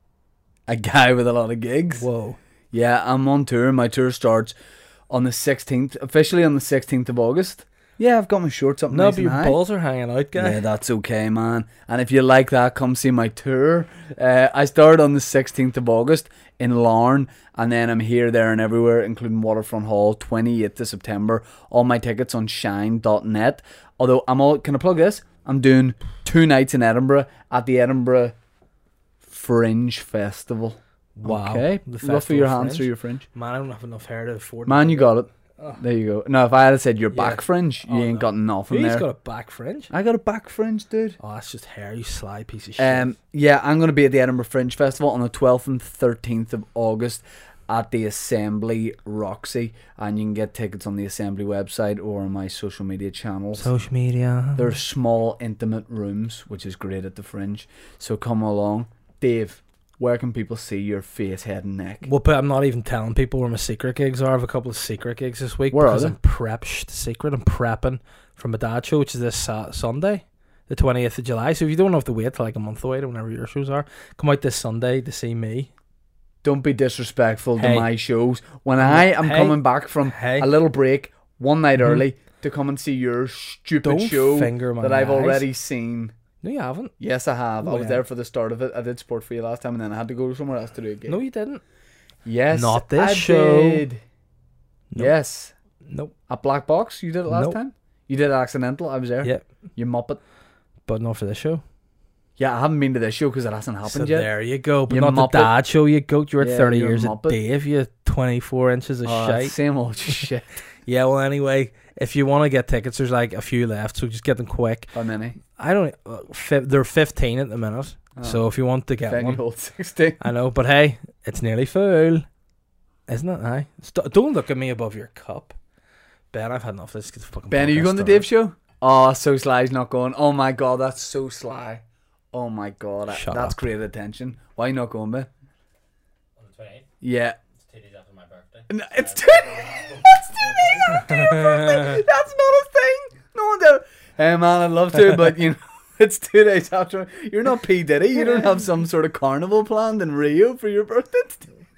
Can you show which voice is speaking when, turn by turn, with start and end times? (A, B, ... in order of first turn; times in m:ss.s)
0:00.7-0:02.0 A
0:02.0-0:02.4 B
0:02.7-0:04.5 A
0:05.1-0:09.6 A
0:08.9-0:10.6 B
0:10.4-0:28.4 A
0:29.2-0:33.3 A
0:31.2-0:35.8 B
0:34.7-0:39.1 A
0:37.1-0:39.9 B
0:39.9-0:41.2 A
0:41.2-0:43.1 B
0:42.8-0:53.7 A
0:53.6-0:54.7 B
0:54.6-1:02.1 A
1:02.0-1:15.7 B
1:05.7-1:06.2 A
1:16.4-1:26.1 A
1:17.6-1:17.9 B
1:18.8-1:20.5 B
1:23.8-1:25.5 B
1:26.4-1:27.0 B
1:27.0-1:31.2 A
1:27.6-1:28.0 B
1:31.1-1:31.6 B
1:32.2-1:34.0 A
1:32.5-1:33.8 B
1:35.0-1:35.5 A
1:35.8-1:36.2 B
1:36.3-1:40.2 A
1:37.3-1:37.6 B
1:40.9-1:41.6 B
1:42.4-1:44.3 A
1:43.9-1:49.6 B
1:44.9-1:45.5 A
1:46.4-1:47.4 A
1:49.0-1:50.5 A
1:50.9-1:54.9 B
1:54.9-1:55.4 A
1:55.6-1:59.4 B
1:58.2-1:58.4 A
1:59.1-2:00.2 A
2:00.2-2:02.3 B
2:03.1-2:05.6 B
2:06.3-2:08.3 B
2:07.5-2:15.3 A
2:13.1-2:13.6 B
2:16.4-2:16.9 C
2:17.0-2:17.4 A
2:17.6-2:21.1 C
2:18.7-2:31.5 A
2:20.9-2:22.0 B